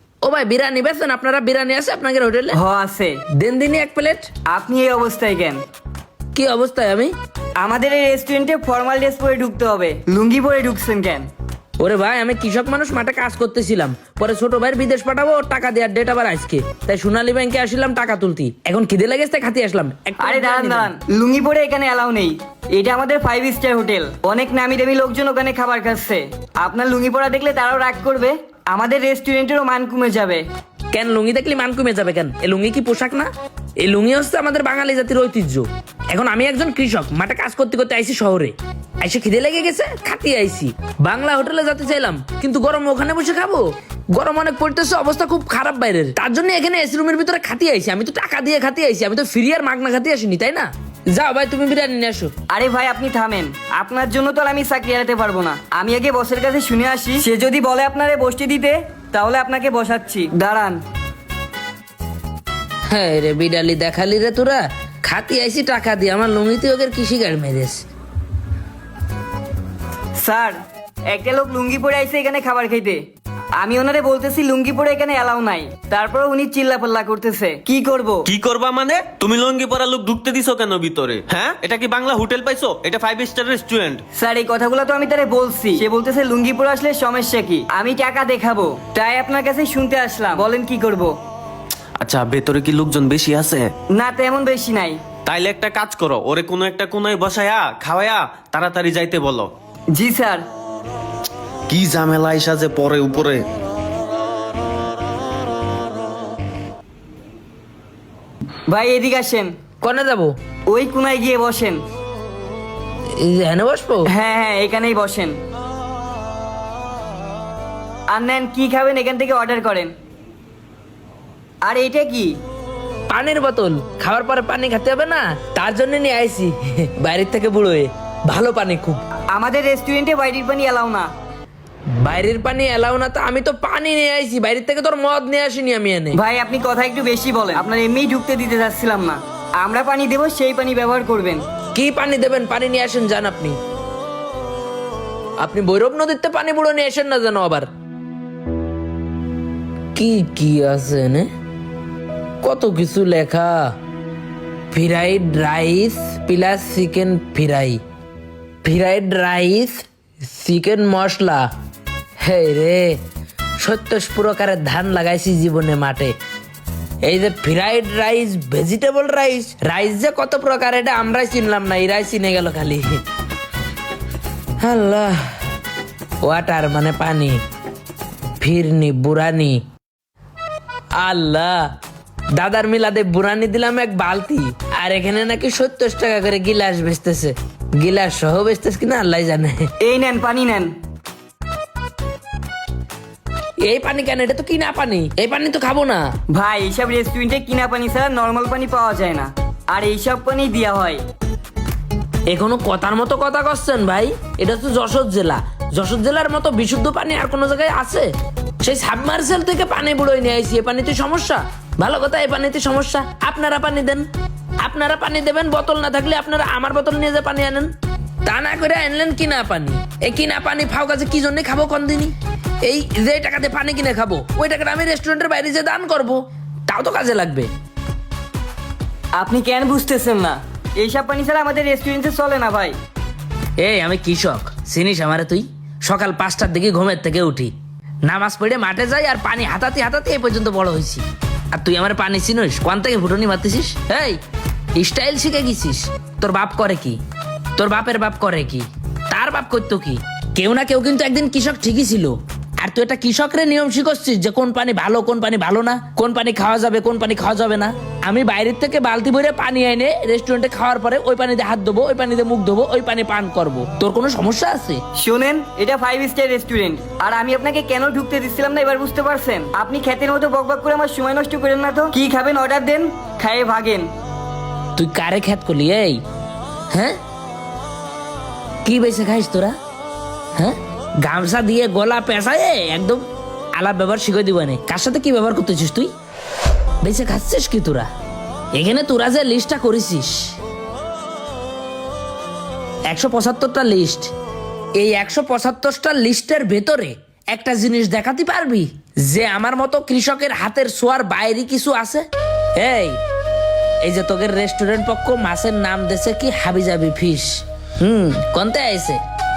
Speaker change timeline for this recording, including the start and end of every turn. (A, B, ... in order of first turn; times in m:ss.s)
0:00.2-0:02.6 A
0:02.5-0:03.2 B
0:03.3-0:04.3 A
0:04.5-0:05.6 B
0:06.3-0:07.1 A
0:07.6-0:11.3 B
0:11.8-0:20.9 A
0:20.2-0:30.5 B
0:30.9-0:33.3 A
0:33.8-0:52.3 A
0:52.5-1:00.8 B
1:02.9-1:07.8 A
1:10.2-1:10.6 B
1:11.1-1:13.0 B
1:13.6-1:18.3 B
1:18.3-1:24.0 C
1:24.2-1:31.2 B
1:32.0-1:33.7 C
1:33.9-1:35.0 B
1:35.2-1:39.5 C
1:39.9-1:40.4 B
1:41.7-1:43.4 C
1:48.7-1:49.5 B
1:49.8-1:50.3 A
1:50.7-1:51.8 B
1:53.1-1:54.1 A
1:54.1-1:55.4 B
1:58.1-1:59.9 B
2:01.6-2:02.4 B
2:03.1-2:09.0 A
2:09.3-2:11.1 B
2:12.0-2:16.2 A
2:16.1-2:21.4 B
2:21.7-2:23.6 A
2:25.4-2:27.7 A
2:29.9-2:31.3 A
2:32.4-2:33.7 A
2:34.7-2:37.8 A
2:38.6-2:41.5 A
2:42.2-2:43.0 A
2:43.6-2:46.1 A
2:47.0-2:53.0 A
2:54.6-2:55.2 A
2:56.2-2:57.4 A
2:58.4-2:59.6 A
3:00.9-3:01.7 A
3:02.3-3:09.7 A
3:09.8-3:10.7 B
3:13.6-3:16.1 A
3:16.3-3:21.0 B
3:22.3-3:28.1 A
3:28.6-3:34.1 A
3:34.6-3:37.7 A
3:38.2-3:47.5 A
3:49.2-3:52.8 B
3:53.6-3:57.5 A
3:58.0-4:04.2 A
4:04.8-4:07.0 A
4:07.6-4:24.8 A
4:25.0-4:33.9 B
4:34.8-4:36.0 A
4:36.7-4:37.0 A
4:38.6-4:39.5 A
4:40.4-4:43.0 A
4:43.6-4:45.9 A
4:46.8-4:47.9 A
4:48.5-4:50.4 A
4:52.9-4:54.1 A
4:54.8-5:02.1 A
5:02.6-5:03.0 A
5:03.8-5:09.0 A